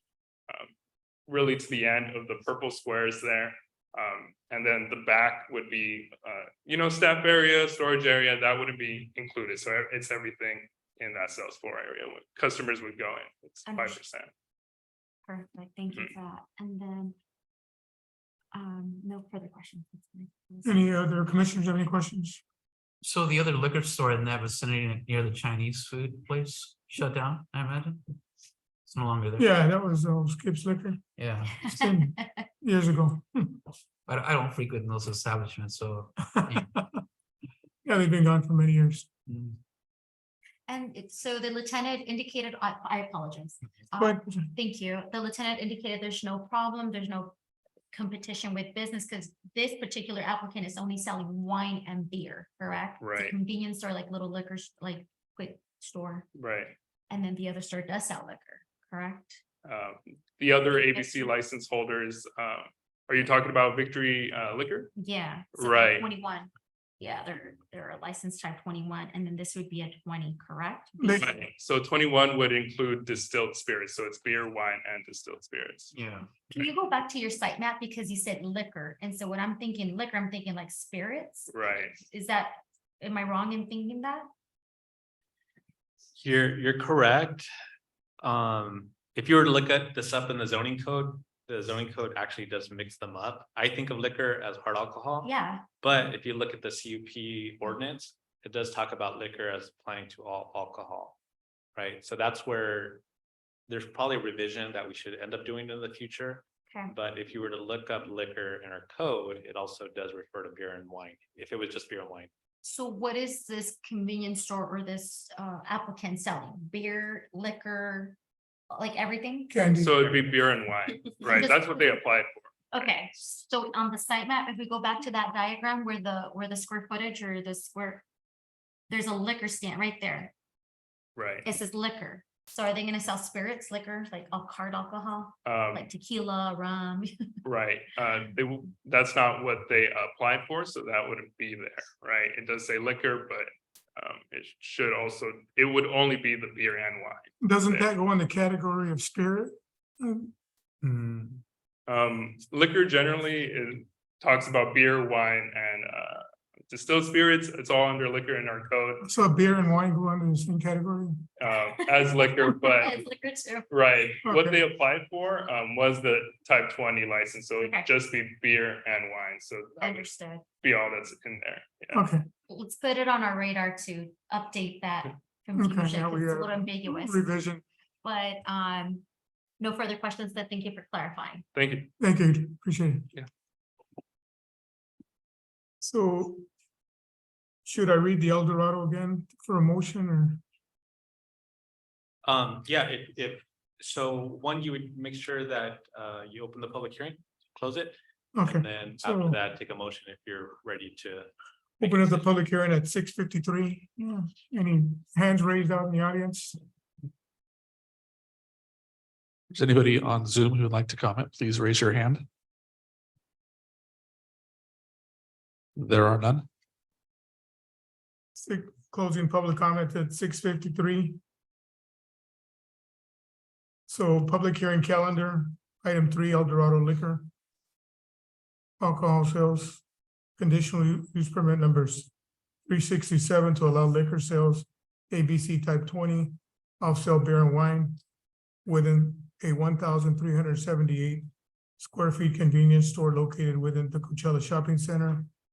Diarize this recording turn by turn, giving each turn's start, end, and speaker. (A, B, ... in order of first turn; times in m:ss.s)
0:01.3-0:14.3 A
0:13.7-0:14.0 B
0:15.3-0:17.2 B
0:18.5-0:21.0 B
0:20.6-0:22.4 C
0:23.0-0:28.0 D
0:28.9-0:29.4 D
0:29.4-0:31.0 C
0:31.2-0:31.6 D
0:31.5-0:32.4 B
0:31.6-0:33.6 C
0:34.1-0:36.6 D
0:36.2-0:37.0 C
0:37.8-0:39.1 C
0:39.3-0:39.6 D
0:40.7-0:47.4 B
0:44.0-0:44.5 C
0:47.9-0:56.3 B
0:53.0-0:53.3 A
0:56.4-0:56.8 A
0:57.1-0:59.4 B
0:59.6-1:04.9 A
1:00.9-1:01.3 B
1:05.0-1:11.2 B
1:05.5-1:06.1 A
1:11.0-1:11.3 C
1:11.2-1:15.9 A
1:15.9-1:16.3 D
1:16.4-1:24.3 B
1:21.5-1:22.0 A
1:26.2-1:27.5 E
1:28.2-1:41.2 E
1:35.2-1:35.6 B
1:41.8-1:43.0 E
1:43.7-1:52.3 E
1:52.6-1:58.2 B
1:58.7-1:59.6 B
1:59.5-2:00.3 C
1:59.8-2:02.9 A
2:01.2-2:02.0 B
2:02.7-2:08.0 B
2:08.9-2:10.3 B
2:11.2-2:11.5 A
2:11.4-2:17.3 B
2:15.4-2:15.9 A
2:17.4-2:27.9 A
2:27.4-2:30.3 C
2:30.8-2:31.2 E
2:31.9-2:39.1 A
2:39.0-2:41.3 C
2:41.4-2:43.0 A
2:41.8-2:43.7 B
2:43.7-2:50.1 A
2:44.2-2:44.6 C
2:47.6-2:47.9 B
2:49.8-2:50.4 B
2:50.6-2:52.1 A
2:51.9-2:52.2 C
2:52.5-2:57.3 B
2:55.6-2:57.6 C
2:58.0-2:59.0 B
2:59.6-3:01.4 B
3:01.5-3:01.9 A
3:02.0-3:03.1 C
3:05.8-3:06.5 C
3:07.6-3:10.4 C
3:12.2-3:21.3 E
3:18.4-3:19.4 C
3:21.8-3:26.6 C
3:21.8-3:22.2 E
3:29.5-3:32.2 F
3:35.8-3:36.5 F
3:38.4-3:41.2 C
3:43.9-3:47.3 C
3:48.8-3:49.8 C
3:50.4-3:52.1 C
3:52.7-3:58.0 C
3:58.6-4:01.3 C
4:01.8-4:05.3 C